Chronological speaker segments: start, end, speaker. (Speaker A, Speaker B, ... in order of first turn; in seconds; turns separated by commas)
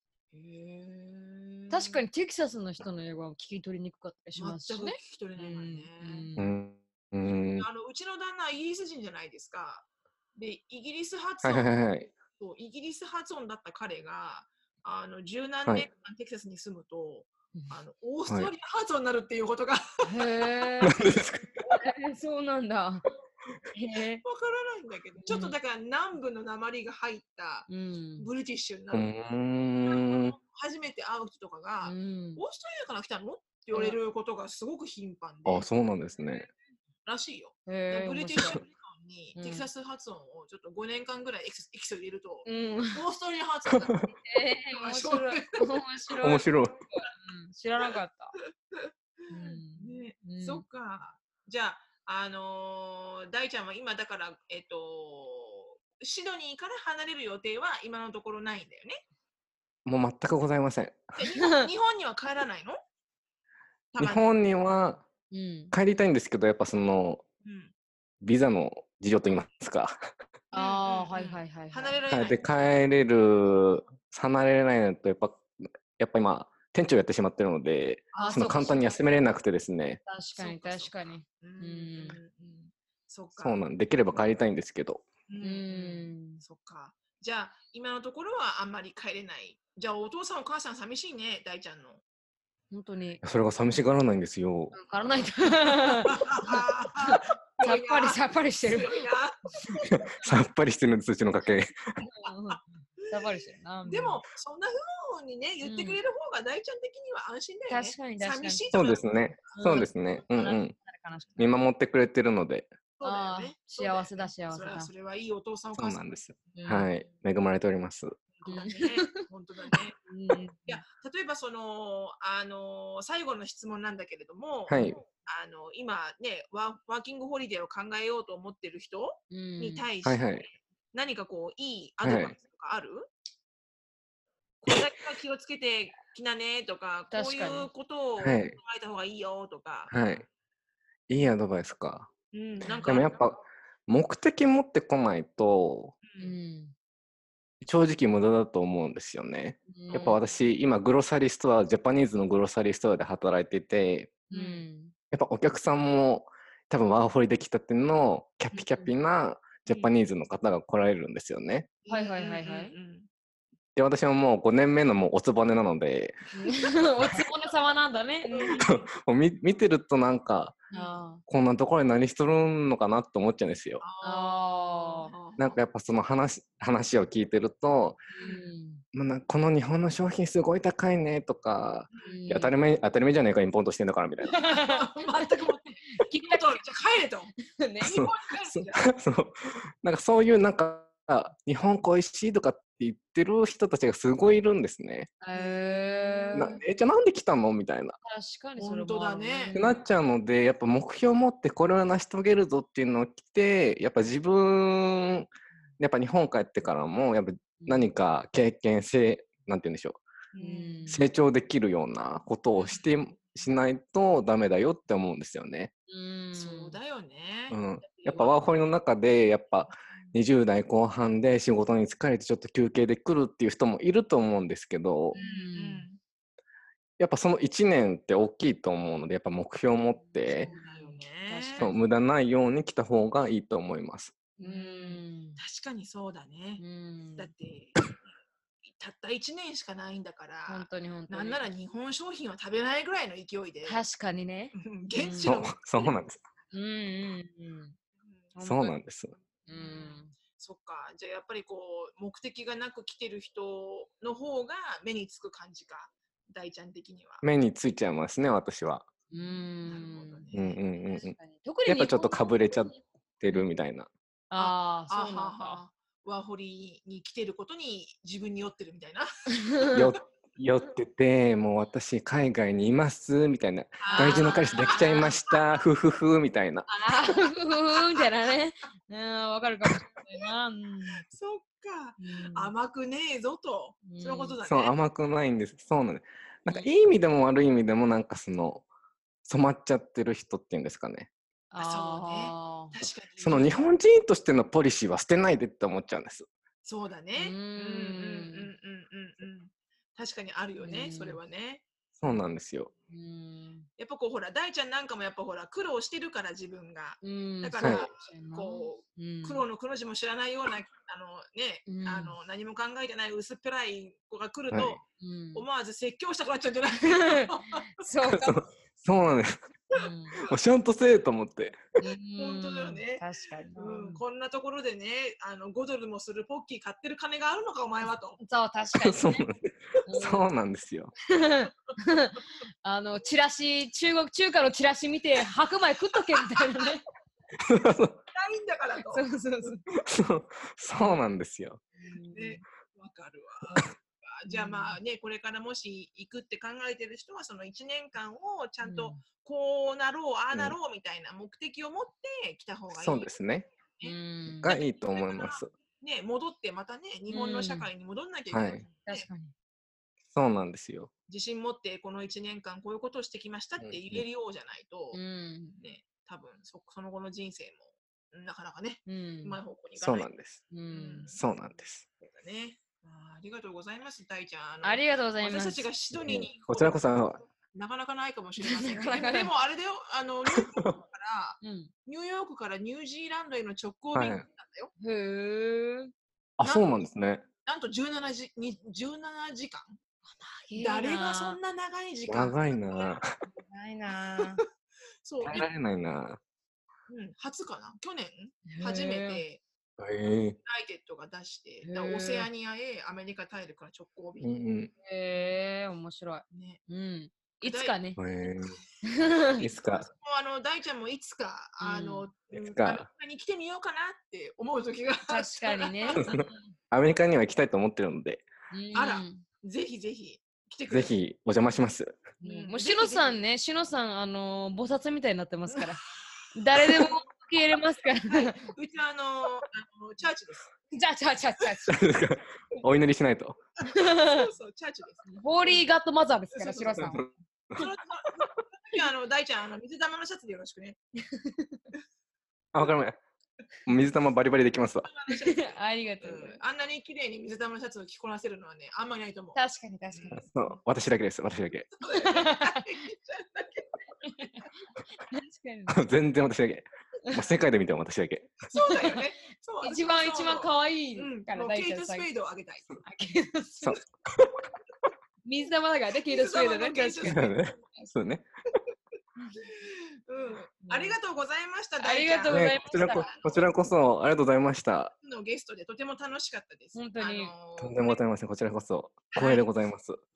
Speaker A: 0.3-2.0, Speaker B: 1.7-6.5, Speaker A: 4.4-6.3, Speaker C: 6.4-7.7, Speaker A: 7.5-11.7, Speaker C: 11.4-12.1, Speaker A: 12.4-21.2, Speaker B: 20.0-21.0, Speaker C: 20.8-21.6, Speaker B: 21.6-23.1, Speaker B: 23.7-24.2, Speaker A: 24.2-29.1, Speaker B: 25.2-25.5, Speaker B: 27.7-28.3, Speaker C: 28.9-30.4, Speaker A: 29.9-35.7, Speaker B: 31.8-32.4, Speaker B: 33.7-34.0, Speaker C: 35.5-36.5, Speaker A: 37.0-44.2, Speaker B: 37.7-38.6, Speaker B: 39.4-39.7, Speaker B: 42.5-43.0, Speaker C: 43.8-44.1, Speaker B: 44.3-48.4, Speaker A: 44.7-45.7, Speaker C: 46.2-46.8, Speaker A: 48.7-59.0, Speaker B: 49.3-50.6, Speaker C: 59.9-61.1, Speaker A: 61.2-62.8, Speaker B: 61.3-61.7, Speaker A: 63.9-64.3, Speaker C: 64.0-65.1, Speaker B: 65.3-65.7, Speaker C: 65.7-67.2, Speaker A: 67.4-67.7, Speaker C: 68.2-70.0, Speaker B: 70.5-72.0, Speaker A: 70.5-72.4, Speaker C: 72.1-80.0, Speaker B: 78.1-79.0, Speaker B: 80.0-82.2, Speaker A: 80.4-83.6, Speaker C: 83.4-85.0, Speaker A: 85.3-92.0, Speaker B: 85.4-86.4, Speaker B: 92.7-93.2, Speaker C: 93.2-94.8, Speaker B: 94.7-99.0, Speaker A: 96.1-100.3, Speaker C: 100.0-101.8, Speaker B: 102.0-104.2, Speaker A: 102.5-109.9, Speaker B: 105.6-106.0, Speaker B: 107.7-108.6, Speaker C: 108.7-110.8, Speaker B: 109.6-111.4, Speaker C: 111.4-112.7, Speaker A: 113.0-116.0, Speaker B: 113.0-114.9, Speaker C: 115.8-118.2, Speaker B: 116.5-116.9, Speaker A: 118.3-120.0, Speaker B: 118.5-120.8, Speaker A: 120.7-130.3, Speaker C: 124.7-125.0, Speaker B: 129.3-129.9, Speaker C: 130.1-130.5, Speaker A: 130.9-133.1, Speaker C: 132.0-132.4, Speaker A: 134.6-140.0, Speaker B: 137.1-137.7, Speaker C: 138.2-138.6, Speaker C: 139.9-140.2, Speaker C: 141.1-142.1, Speaker A: 142.3-143.2, Speaker C: 142.8-146.0, Speaker A: 146.0-146.3, Speaker B: 146.2-146.7, Speaker C: 147.6-154.3, Speaker B: 149.7-150.2, Speaker B: 154.3-154.9, Speaker A: 154.3-154.6, Speaker C: 155.1-161.7, Speaker B: 158.6-158.9, Speaker A: 161.8-163.1, Speaker B: 161.9-162.7, Speaker C: 163.8-166.2, Speaker B: 166.4-168.6, Speaker A: 166.4-167.2, Speaker A: 168.3-168.9, Speaker C: 168.6-170.6, Speaker B: 170.7-171.2, Speaker A: 170.7-171.0, Speaker C: 171.3-173.8, Speaker A: 173.8-175.6, Speaker B: 174.0-175.1, Speaker C: 175.4-178.0, Speaker B: 178.1-178.8, Speaker A: 178.2-178.4, Speaker C: 178.9-184.5, Speaker A: 181.9-182.2, Speaker B: 182.0-182.5, Speaker B: 184.3-185.3, Speaker A: 184.4-188.9, Speaker B: 185.9-186.6, Speaker B: 187.5-188.0, Speaker C: 187.8-195.1, Speaker B: 195.2-196.6, Speaker A: 195.3-196.6, Speaker C: 196.3-198.0, Speaker B: 198.0-199.8, Speaker A: 198.6-199.6, Speaker C: 199.5-205.3, Speaker C: 205.8-210.0, Speaker B: 207.6-207.9, Speaker A: 210.3-210.9, Speaker B: 210.4-211.0, Speaker C: 210.9-215.7, Speaker A: 212.6-213.0, Speaker B: 215.9-216.8, Speaker A: 216.3-218.4, Speaker C: 217.5-225.2, Speaker A: 225.1-226.0, Speaker B: 225.1-225.9, Speaker C: 227.0-230.5, Speaker B: 230.3-231.8, Speaker A: 230.4-231.7, Speaker C: 231.6-234.2, Speaker B: 234.4-235.4, Speaker A: 234.4-236.6, Speaker B: 236.6-237.3, Speaker A: 237.2-237.8, Speaker A: 238.6-243.8, Speaker B: 240.5-241.4, Speaker B: 243.7-245.4, Speaker A: 244.5-245.9, Speaker C: 245.2-246.2, Speaker B: 246.5-247.8, Speaker A: 248.0-248.3, Speaker B: 248.3-248.8, Speaker C: 248.4-249.2, Speaker B: 249.4-250.1, Speaker A: 249.5-257.2, Speaker C: 257.2-258.9, Speaker B: 259.1-260.3, Speaker A: 259.6-260.6, Speaker C: 260.3-263.9, Speaker B: 260.9-262.7, Speaker B: 264.3-265.6, Speaker A: 264.4-269.8, Speaker B: 269.3-269.9, Speaker C: 269.7-276.7, Speaker A: 273.8-275.4, Speaker B: 273.9-275.1, Speaker B: 276.7-281.0, Speaker A: 277.8-278.1, Speaker A: 281.0-284.8, Speaker B: 282.0-282.5, Speaker B: 283.9-284.4, Speaker C: 284.4-288.6, Speaker C: 289.3-291.1, Speaker B: 291.5-292.7, Speaker A: 291.6-293.6, Speaker C: 293.2-296.3, Speaker A: 296.6-301.6, Speaker B: 297.1-298.5, Speaker B: 300.6-301.2, Speaker C: 302.0-302.7, Speaker B: 302.9-303.7, Speaker A: 303.8-314.8, Speaker B: 307.0-309.4, Speaker C: 307.6-307.9, Speaker B: 311.7-312.2, Speaker C: 314.5-314.8, Speaker B: 315.0-315.4, Speaker A: 315.3-317.7, Speaker B: 316.8-318.4, Speaker C: 318.1-319.4, Speaker B: 319.7-320.2, Speaker A: 319.7-320.4, Speaker C: 320.3-321.6, Speaker B: 321.8-324.0, Speaker A: 322.2-328.2, Speaker B: 328.2-329.3, Speaker C: 328.8-330.9, Speaker B: 329.9-330.3, Speaker B: 331.1-336.8, Speaker A: 336.2-336.7, Speaker C: 337.4-338.0, Speaker A: 338.1-339.5, Speaker B: 338.9-339.6, Speaker C: 339.9-341.6, Speaker B: 341.8-342.4, Speaker A: 342.1-343.5, Speaker B: 343.4-343.7, Speaker A: 344.0-359.1, Speaker B: 344.3-344.8, Speaker B: 348.6-349.0, Speaker C: 352.7-353.5, Speaker B: 353.8-354.5, Speaker C: 354.4-355.5, Speaker B: 357.1-357.7, Speaker C: 358.3-358.6, Speaker B: 358.9-359.3, Speaker C: 360.1-360.9, Speaker A: 361.1-365.0, Speaker C: 363.6-364.0, Speaker B: 364.9-365.6, Speaker A: 365.6-370.1, Speaker B: 368.9-369.4, Speaker C: 369.8-370.5, Speaker B: 370.5-371.1, Speaker A: 370.7-371.2, Speaker C: 371.1-371.9, Speaker A: 372.0-384.7, Speaker B: 374.6-375.7, Speaker C: 375.9-377.2, Speaker B: 378.4-379.3, Speaker C: 380.4-380.7, Speaker B: 381.4-381.7, Speaker C: 383.9-384.2, Speaker B: 384.8-385.9, Speaker C: 386.4-387.3, Speaker A: 387.4-389.8, Speaker B: 390.1-391.4, Speaker A: 390.5-393.0, Speaker C: 392.1-393.2, Speaker B: 393.4-394.4, Speaker A: 395.0-395.5, Speaker C: 395.2-396.2, Speaker A: 396.9-399.4, Speaker B: 398.5-399.2, Speaker C: 399.8-400.4, Speaker A: 400.4-404.3, Speaker B: 401.6-402.3, Speaker C: 404.2-404.7, Speaker B: 404.8-408.0, Speaker A: 406.3-406.6, Speaker A: 407.4-407.8, Speaker C: 408.0-408.6, Speaker B: 408.8-409.5, Speaker C: 409.4-409.9, Speaker A: 409.6-416.2, Speaker B: 411.6-412.1, Speaker C: 412.3-412.9, Speaker B: 415.1-416.5, Speaker C: 415.9-418.3, Speaker B: 418.5-419.2, Speaker A: 418.7-420.9, Speaker C: 420.7-422.0, Speaker B: 422.2-428.5, Speaker A: 422.2-423.2, Speaker A: 426.5-426.9, Speaker A: 428.1-430.5, Speaker B: 430.7-431.8, Speaker C: 431.7-433.4, Speaker B: 433.6-434.2, Speaker A: 433.7-435.7, Speaker B: 435.1-437.1, Speaker A: 436.3-436.8, Speaker C: 436.8-437.6, Speaker A: 437.6-440.8, Speaker B: 441.1-441.6, Speaker C: 442.5-443.0, Speaker C: 443.7-444.9, Speaker A: 444.9-449.4, Speaker B: 445.1-446.4, Speaker B: 449.4-450.3, Speaker A: 449.9-450.3, Speaker C: 450.1-451.7, Speaker A: 451.7-454.5, Speaker B: 451.9-452.7, Speaker B: 454.0-455.8, Speaker C: 455.7-458.5, Speaker A: 458.5-462.8, Speaker B: 459.6-462.1, Speaker B: 462.8-463.8, Speaker C: 463.6-464.4, Speaker B: 465.2-467.9, Speaker A: 466.1-467.4, Speaker C: 467.0-468.2, Speaker A: 469.4-473.5, Speaker B: 470.6-471.0, Speaker B: 471.8-473.1, Speaker C: 472.3-474.9, Speaker A: 475.0-478.0, Speaker B: 476.7-477.3, Speaker C: 477.6-480.0, Speaker A: 479.1-479.5